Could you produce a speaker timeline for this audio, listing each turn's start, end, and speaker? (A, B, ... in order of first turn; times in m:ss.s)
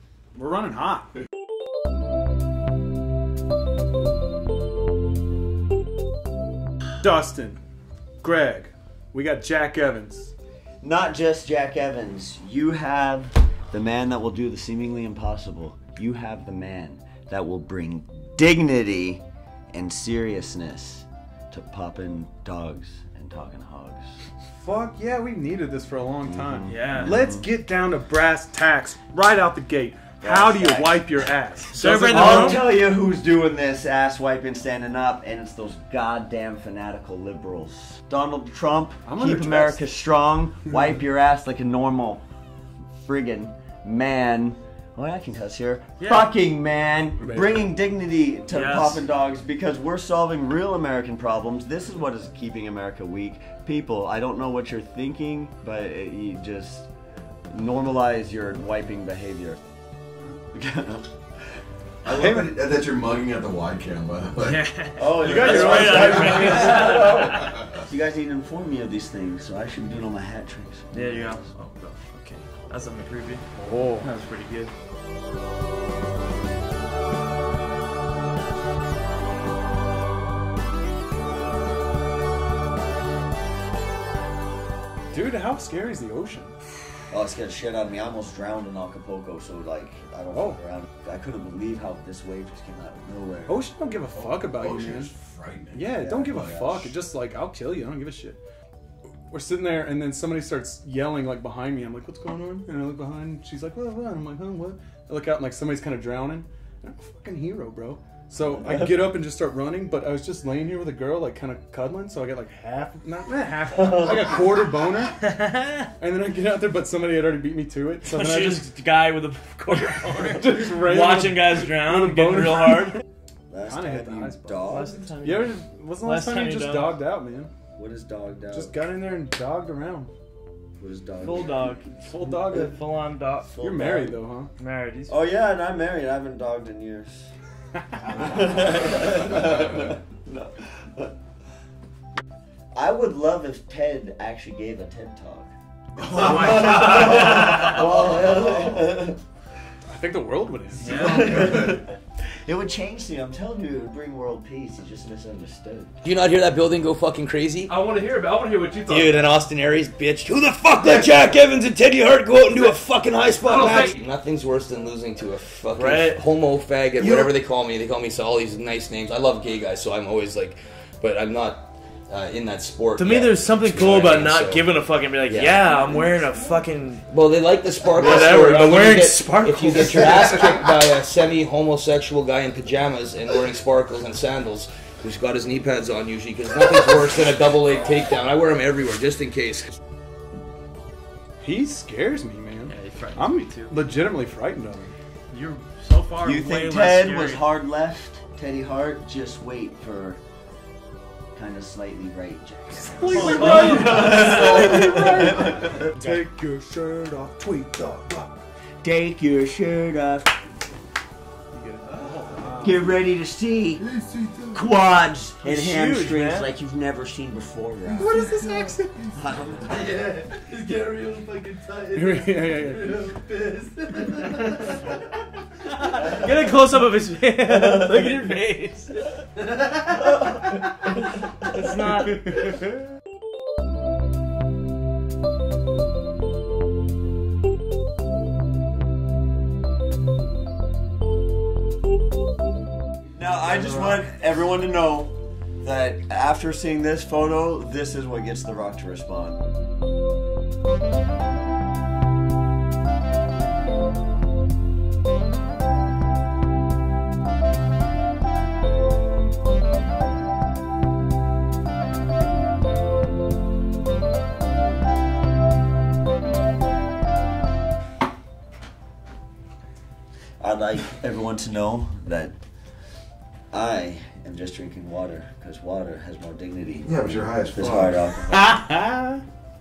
0:00.3-0:01.1 A
0:07.0-0:07.6 A
0:08.2-0:10.3 A
0:10.8-0:24.2 B
0:24.6-0:32.6 A
0:26.3-0:27.5 B
0:26.7-0:27.1 C
0:30.2-0:31.1 B
0:31.7-0:32.7 C
0:32.1-0:42.2 B
0:39.0-0:39.8 A
0:43.0-0:56.9 B
0:46.0-0:46.3 C
0:47.2-0:47.7 A
0:48.5-0:49.0 C
0:57.5-0:59.6 B
1:00.5-1:01.1 B
1:02.0-1:02.4 B
1:02.1-1:04.7 D
1:04.4-1:07.5 C
1:05.0-1:11.5 B
1:05.2-1:06.8 A
1:10.9-1:13.4 C
1:13.6-1:14.1 A
1:14.0-1:14.7 C
1:25.1-1:26.5 A
1:27.1-1:33.6 B
1:30.3-1:30.6 A
1:33.5-1:35.1 A
1:34.2-1:36.4 D
1:35.7-1:38.4 A
1:36.0-1:36.9 B
1:39.3-1:55.2 A
1:55.2-1:55.8 C
1:56.0-1:58.7 A
1:58.1-2:03.0 C
2:00.2-2:03.0 A
2:03.5-2:05.0 B
2:03.6-2:04.7 A
2:04.7-2:07.0 C
2:05.2-2:07.5 A
2:07.8-2:08.7 B
2:08.5-2:10.1 A
2:10.8-2:12.7 B
2:11.2-2:13.5 C
2:12.0-2:12.8 A
2:13.4-2:14.2 B
2:13.6-2:14.5 A
2:14.6-2:15.2 C
2:15.1-2:17.3 B
2:18.0-2:21.1 B
2:22.7-2:29.2 B
2:26.3-2:27.8 C
2:29.9-2:31.0 A
2:30.8-2:31.6 C
2:30.8-2:36.0 B
2:36.0-2:37.8 E
2:37.8-2:38.9 C
2:38.8-2:55.9 E
2:43.5-2:43.9 C
2:45.8-2:46.2 C
2:53.0-2:57.0 C
2:57.1-3:09.7 E
2:58.0-3:00.2 C
3:00.0-3:00.3 A
3:11.4-3:14.9 A
3:12.7-3:13.7 C
3:15.3-3:17.5 C
3:16.2-3:20.2 B
3:21.3-3:25.9 B
3:22.7-3:28.3 A
3:23.1-3:25.0 C
3:25.8-3:26.2 C
3:28.8-3:30.3 B
3:31.5-3:32.8 A
3:32.6-3:33.8 B
3:34.5-3:38.2 B
3:35.4-3:36.5 C
3:38.0-3:39.2 A
3:39.2-3:39.9 B
3:39.6-3:44.8 C
3:41.9-3:43.0 A
3:45.6-3:49.2 C
3:49.9-3:50.2 C
3:51.5-3:52.5 C
4:03.1-4:09.4 B
4:03.4-4:04.1 C
4:30.4-4:32.4 B
4:33.5-4:38.4 B
4:36.8-4:38.0 D
4:38.5-4:39.0 A